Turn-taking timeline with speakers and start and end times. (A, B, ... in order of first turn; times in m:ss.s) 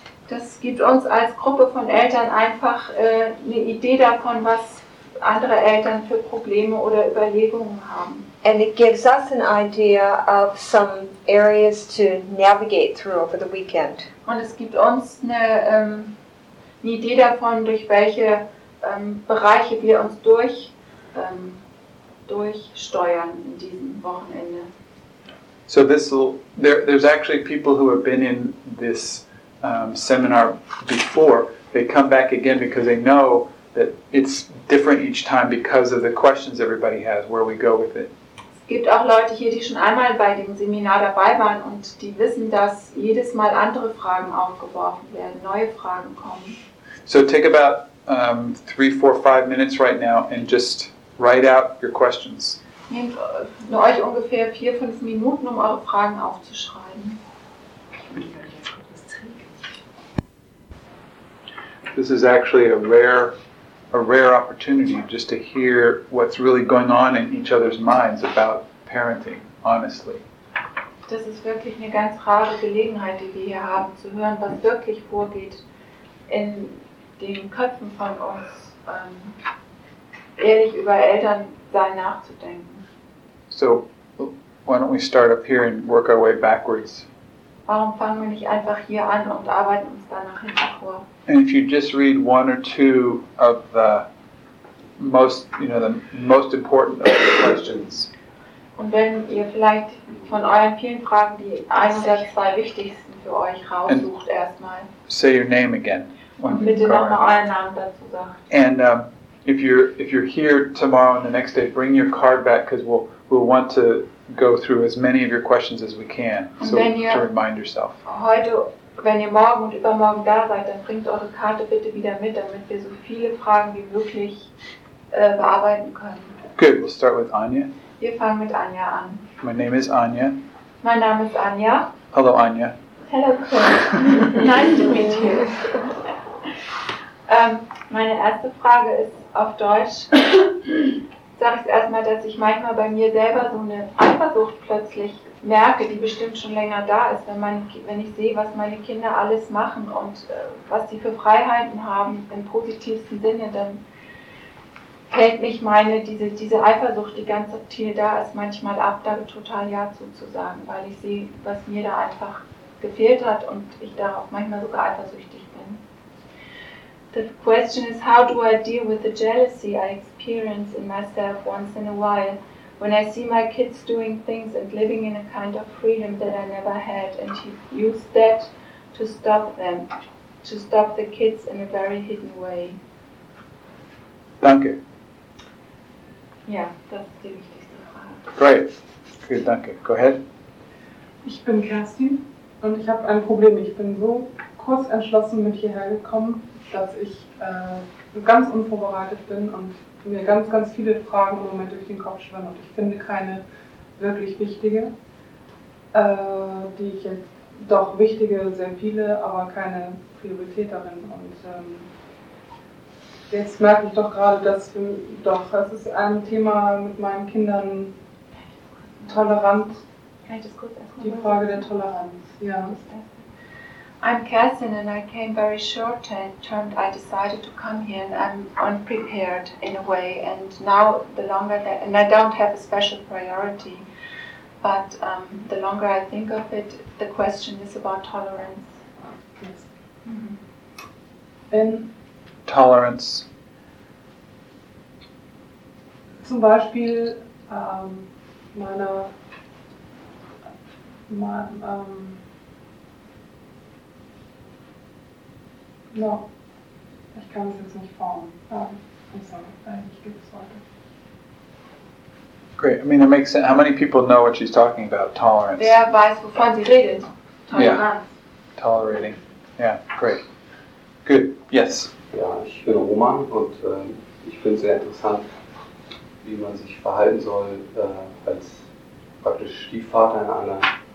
0:00.3-0:08.3 A
0:08.4-0:14.1 B
0:14.2-0:16.2 A
0:16.8-0:21.6 A
0:22.2-0:24.7 A
0:25.7-0:38.1 C
0:38.6-0:46.6 A
0:47.0-0:52.6 C
0:52.9-0:57.2 A
1:01.9-1:03.4 C
1:03.9-1:10.2 C
1:11.1-1:15.6 A
1:16.3-1:19.4 A
1:20.4-1:22.8 A
1:23.5-1:27.0 C
1:27.7-1:31.0 A
1:31.3-1:34.1 C
1:35.0-1:38.1 C
1:38.8-1:44.9 A
1:45.1-1:47.3 C
1:46.5-1:48.4 A
1:48.5-1:58.0 C
1:56.6-1:57.2 A
1:58.0-2:04.5 A
2:05.1-2:06.4 A
2:06.6-2:07.7 C
2:08.0-2:09.3 A
2:09.4-2:10.4 C
2:10.8-2:11.9 A
2:12.1-2:12.8 C
2:13.1-2:15.8 A
2:17.3-2:33.8 A
2:35.1-2:45.8 A
2:47.1-2:59.9 A
3:00.4-3:02.8 A
3:04.4-3:04.8 C
3:06.4-3:08.2 A
3:08.4-3:08.7 C
3:09.2-3:10.2 C
3:11.2-3:23.4 D
3:24.0-3:24.9 D
3:25.9-3:31.9 D
3:33.3-3:37.9 D
3:39.1-3:39.8 D
3:40.3-3:41.9 A
3:41.0-3:42.8 D
3:42.7-3:43.2 A
3:44.0-3:53.8 A
3:54.6-3:58.7 A
3:59.4-3:59.7 D
4:00.0-4:00.4 A
4:01.5-4:01.9 D
4:02.5-4:03.2 C
4:06.2-4:09.1 D
4:11.1-4:12.2 D
4:15.9-4:16.3 D
4:17.1-4:20.6 D
4:22.6-4:25.7 C
4:25.6-4:28.1 A
4:27.5-4:27.8 C
4:28.6-4:30.2 C
4:31.0-4:31.9 C
4:32.1-4:35.2 E
4:36.2-4:38.7 E
4:39.2-4:40.7 E